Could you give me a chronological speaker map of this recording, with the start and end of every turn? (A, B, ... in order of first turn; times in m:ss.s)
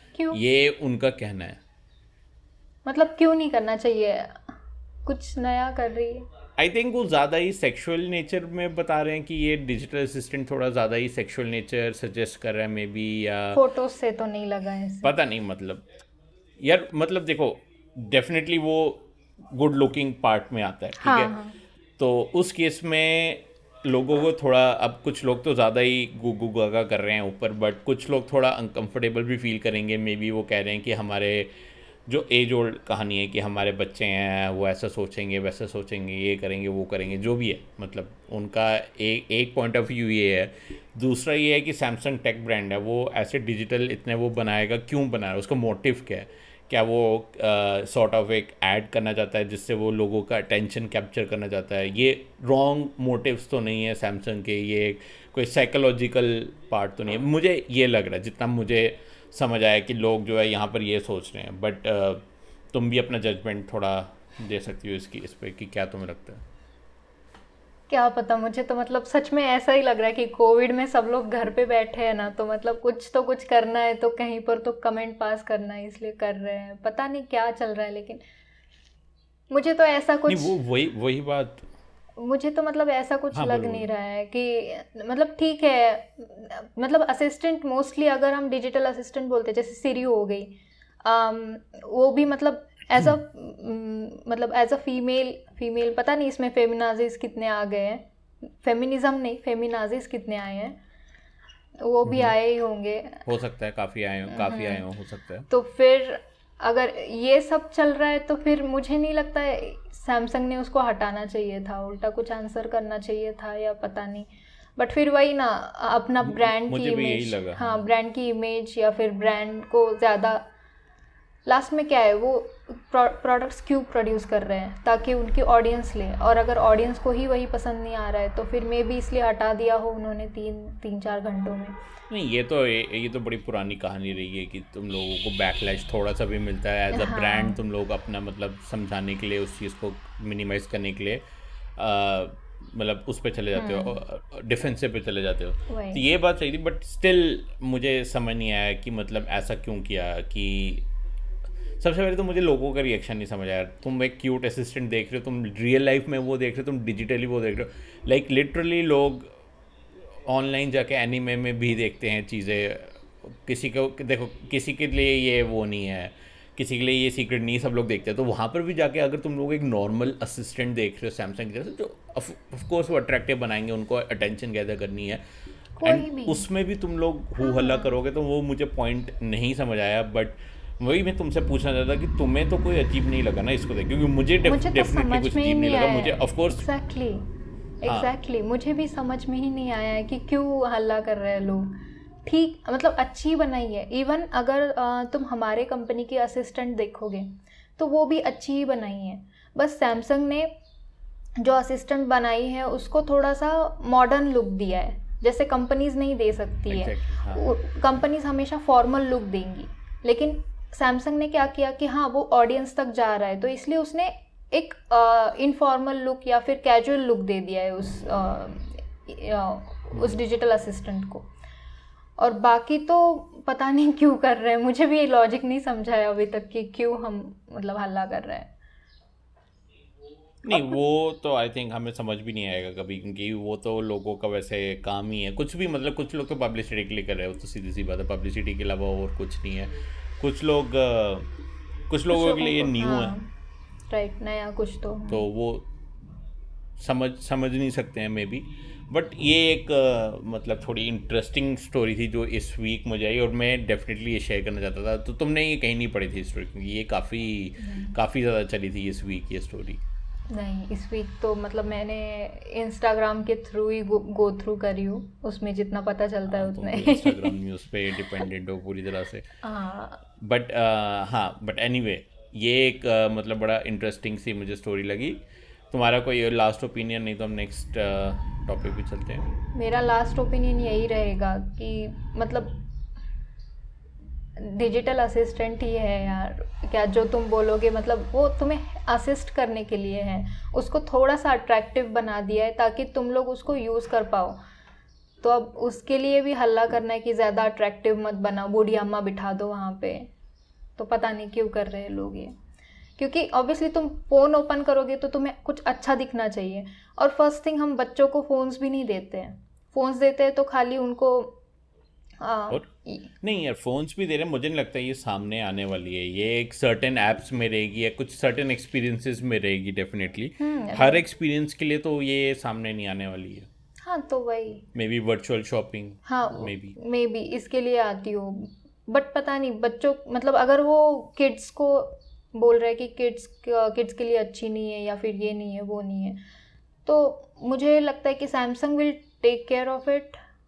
0:00.3-0:01.6 A
0:02.9-0:06.3 B
0:06.6-0:13.6 A
0:13.5-0:15.2 B
0:15.0-0:15.9 A
0:16.6-0:21.3 A
0:21.0-0:21.6 B
0:22.0-1:06.4 A
1:07.9-1:18.2 B
1:19.5-1:20.5 B
1:20.3-1:21.7 A
1:22.2-1:40.8 B
1:23.3-1:23.8 A
1:41.8-1:43.2 B
1:42.1-1:42.3 A
1:43.3-1:45.5 A
1:44.3-1:44.8 B
1:45.5-2:00.5 B
1:56.2-1:57.8 A
2:01.5-2:11.8 B
2:12.1-2:21.2 A
2:16.9-2:17.6 B
2:21.8-2:30.9 A
2:23.6-2:24.0 B
2:25.7-2:26.0 B
2:31.8-2:39.3 A
2:40.2-2:55.2 A
2:55.8-2:56.4 B
2:55.8-3:06.6 A
2:57.4-2:57.9 B
3:04.4-3:07.3 B
3:07.8-3:20.5 B
3:07.9-3:08.1 A
3:21.4-3:41.3 B
3:26.7-3:27.5 A
3:42.2-3:48.5 B
3:50.4-4:01.3 A
3:50.5-3:50.8 B
4:01.9-4:03.2 A
4:02.1-4:03.3 B
4:03.9-4:05.2 B
4:05.1-4:05.7 A
4:06.8-4:19.8 A
4:17.6-4:18.0 B
4:20.3-4:27.4 B
4:26.3-4:29.3 A
4:29.4-4:30.0 B
4:30.2-4:39.3 A
4:39.5-4:42.6 B
4:44.4-4:54.4 B
4:55.2-5:00.1 B
5:00.8-5:02.4 B
5:03.0-5:11.4 B
5:12.2-5:13.1 B
5:13.2-5:23.5 A
5:20.4-5:21.0 B
5:23.8-5:24.7 B
5:24.8-5:26.8 A
5:26.1-5:36.2 B
5:36.9-5:40.2 B